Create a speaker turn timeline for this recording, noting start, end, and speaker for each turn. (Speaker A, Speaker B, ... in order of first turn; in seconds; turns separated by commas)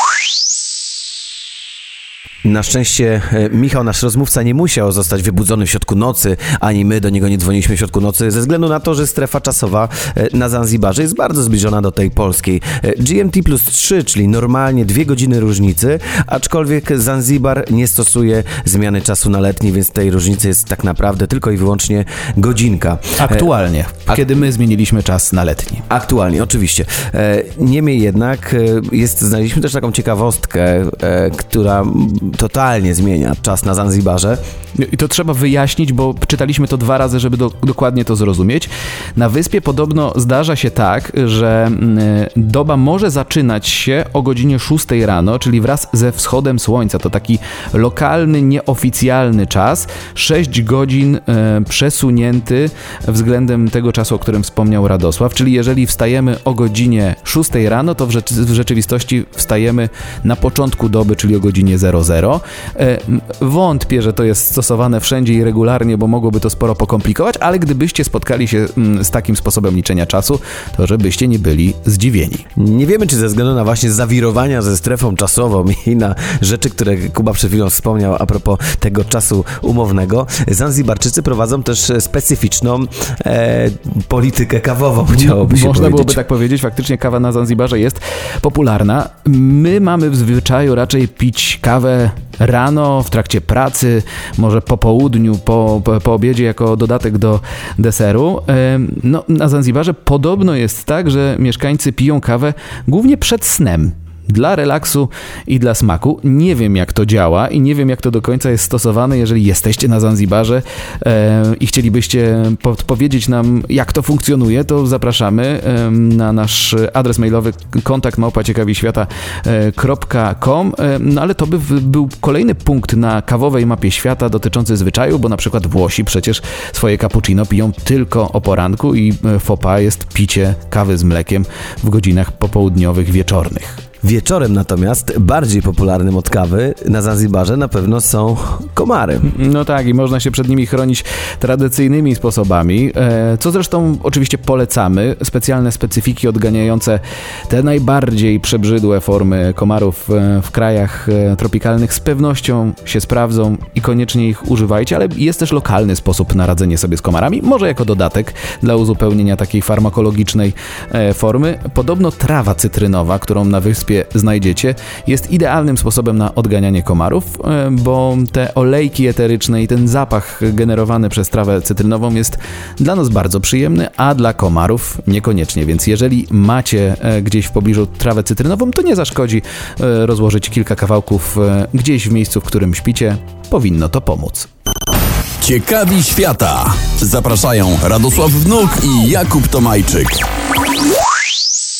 Speaker A: 2.4-23.5, Speaker B: 23.2-25.8, Speaker A: 25.9-34.4, Speaker B: 34.8-72.4, Speaker A: 72.6-86.2, Speaker B: 85.2-133.8, Speaker A: 134.0-139.3, Speaker B: 139.2-184.5, Speaker C: 185.4-190.2